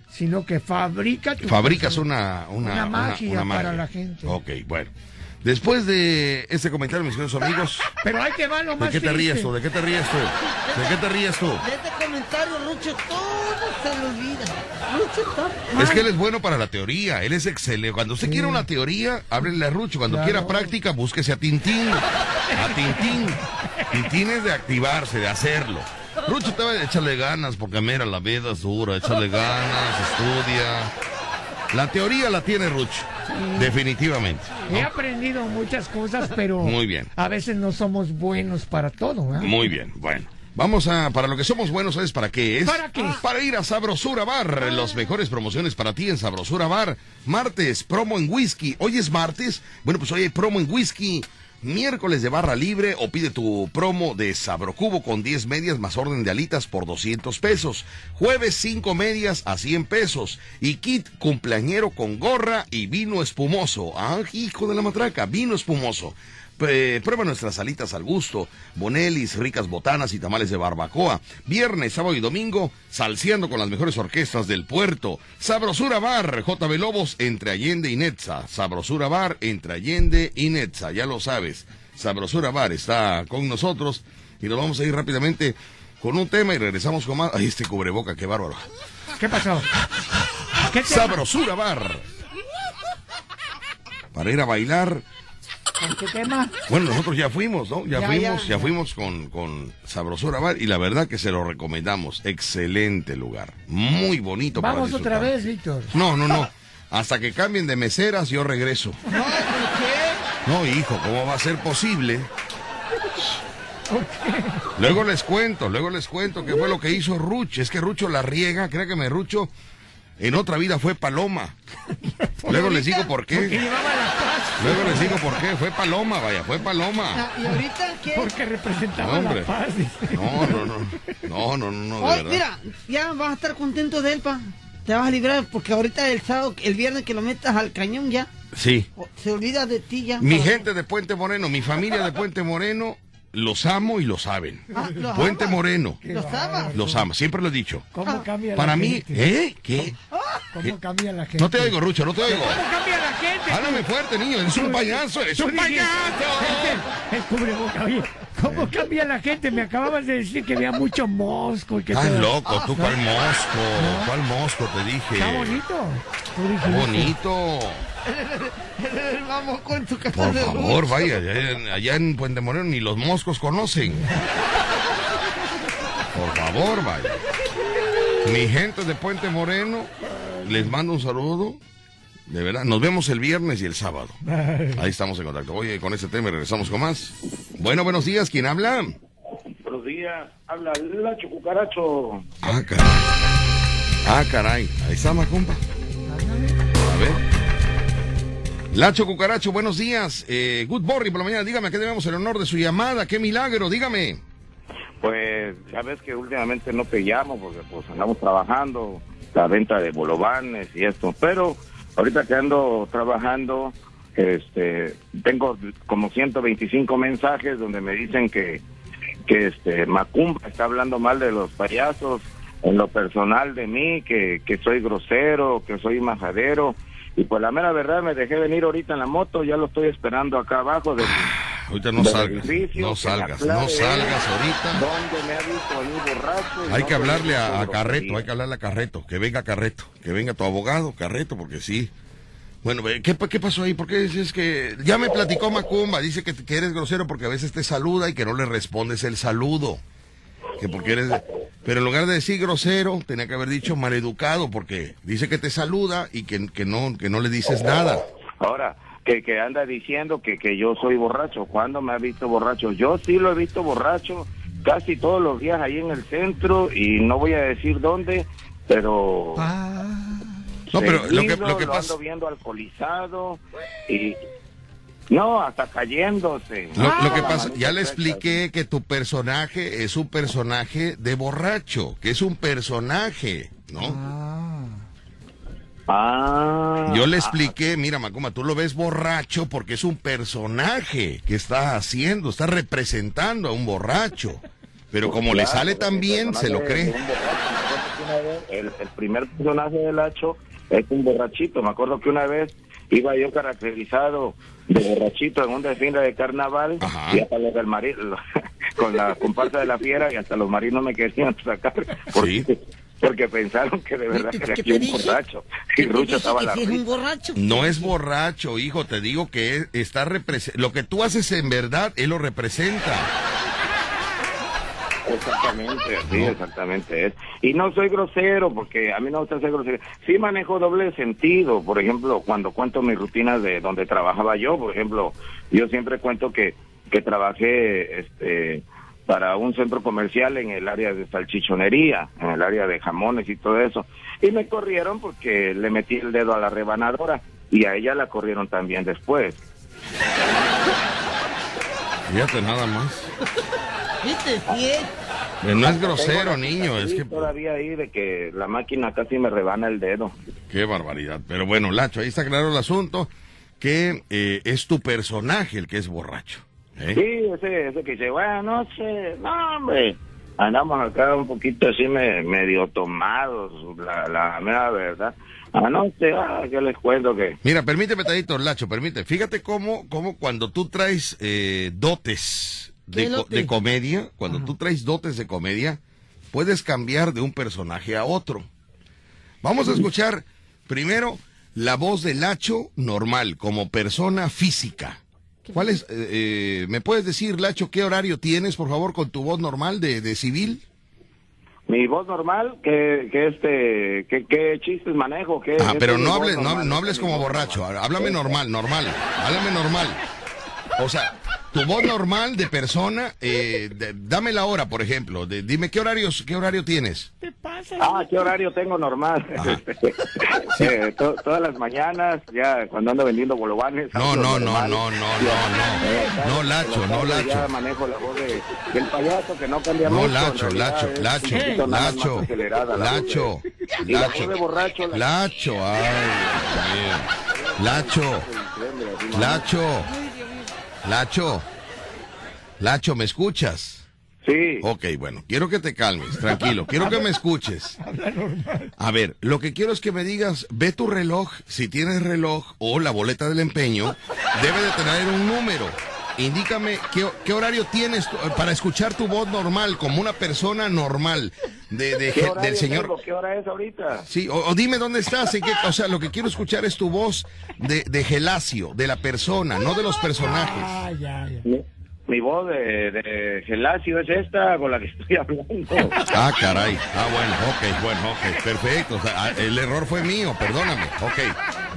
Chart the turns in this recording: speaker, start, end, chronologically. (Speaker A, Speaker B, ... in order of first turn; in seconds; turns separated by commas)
Speaker A: 0.1-2.0, Speaker B: 1.4-4.9, Speaker A: 2.6-4.4, Speaker B: 5.4-7.9, Speaker A: 8.0-9.5, Speaker B: 8.8-11.6, Speaker C: 10.5-11.0, Speaker C: 11.6-16.0, Speaker B: 15.8-30.9, Speaker A: 18.2-18.7, Speaker A: 20.1-20.7, Speaker A: 22.5-24.0, Speaker B: 31.7-34.9, Speaker A: 33.3-33.8, Speaker A: 34.7-39.6, Speaker B: 36.6-37.1, Speaker B: 39.4-88.7, Speaker A: 42.6-43.2, Speaker A: 89.2-89.7, Speaker B: 89.7-92.0, Speaker A: 90.6-91.2, Speaker B: 94.1-95.0, Speaker A: 95.8-96.5, Speaker B: 96.7-105.3, Speaker C: 97.9-98.7, Speaker A: 104.5-106.0, Speaker B: 105.9-109.0, Speaker C: 109.1-110.3, Speaker A: 109.1-109.4, Speaker B: 110.4-112.3, Speaker A: 113.9-114.8, Speaker B: 114.8-119.5, Speaker B: 120.2-121.6, Speaker A: 122.2-125.4, Speaker B: 122.5-123.6, Speaker B: 124.6-127.2, Speaker C: 127.1-128.3, Speaker A: 128.1-131.2, Speaker B: 129.0-129.5, Speaker B: 130.1-132.4, Speaker C: 132.0-138.3, Speaker B: 138.5-138.9, Speaker C: 139.0-140.6, Speaker B: 140.2-146.0, Speaker C: 144.7-146.8, Speaker A: 146.0-147.1, Speaker B: 146.7-147.9, Speaker A: 147.9-149.3, Speaker B: 148.6-149.9, Speaker C: 150.1-150.4, Speaker A: 150.5-153.9, Speaker B: 151.4-152.6, Speaker B: 153.5-156.8, Speaker A: 154.5-162.9, Speaker B: 158.4-158.7, Speaker B: 161.9-165.6, Speaker C: 162.5-162.8, Speaker A: 163.8-164.1, Speaker A: 165.1-167.1, Speaker B: 166.6-167.9, Speaker C: 168.1-171.1, Speaker B: 170.1-174.1, Speaker A: 174.0-174.3, Speaker B: 176.1-177.2, Speaker B: 178.2-181.6, Speaker B: 182.3-184.2, Speaker A: 184.3-184.8, Speaker B: 184.7-189.0, Speaker D: 189.6-192.3, Speaker B: 192.4-193.1, Speaker B: 194.0-195.6, Speaker A: 196.1-196.6, Speaker B: 196.8-197.2, Speaker B: 198.7-204.2, Speaker D: 205.0-218.6, Speaker D: 219.3-231.3, Speaker B: 231.0-234.8, Speaker D: 232.0-234.2, Speaker D: 234.7-238.3, Speaker B: 236.7-241.9, Speaker B: 242.6-249.8, Speaker B: 250.6-258.0, Speaker D: 258.4-269.5, Speaker A: 269.4-270.3, Speaker D: 270.7-274.2, Speaker B: 270.7-271.9, Speaker D: 275.1-278.4, Speaker B: 276.8-284.0, Speaker A: 283.8-284.8, Speaker D: 285.9-287.5, Speaker B: 286.9-296.9, Speaker D: 295.0-308.2, Speaker B: 306.8-307.2, Speaker D: 308.8-316.8, Speaker B: 312.1-312.5, Speaker C: 314.1-315.2, Speaker C: 315.8-317.9, Speaker B: 317.4-323.1, Speaker D: 325.1-349.4, Speaker B: 326.1-326.4, Speaker B: 352.1-353.1, Speaker C: 354.0-354.9, Speaker B: 355.4-357.3, Speaker D: 355.5-360.1, Speaker B: 360.5-367.0, Speaker D: 366.9-377.4, Speaker B: 377.4-385.8, Speaker C: 382.9-383.5, Speaker B: 386.3-388.5, Speaker B: 389.4-395.0, Speaker B: 395.5-400.6, Speaker D: 401.7-408.4, Speaker B: 405.6-410.0, Speaker B: 410.8-417.1, Speaker A: 417.2-418.3, Speaker D: 417.8-433.3, Speaker B: 423.9-427.5, Speaker A: 425.5-426.2, Speaker B: 429.8-434.4, Speaker A: 431.3-431.7, Speaker D: 433.9-435.1, Speaker B: 434.9-438.3, Speaker D: 437.3-439.5, Speaker B: 439.1-439.9, Speaker B: 440.8-441.5, Speaker B: 442.6-443.9, Speaker D: 444.2-444.7, Speaker B: 444.6-447.8, Speaker A: 447.8-448.7, Speaker B: 448.8-462.9, Speaker D: 462.1-464.1, Speaker B: 464.1-470.8, Speaker A: 470.2-471.4, Speaker D: 471.4-476.1, Speaker B: 476.0-481.4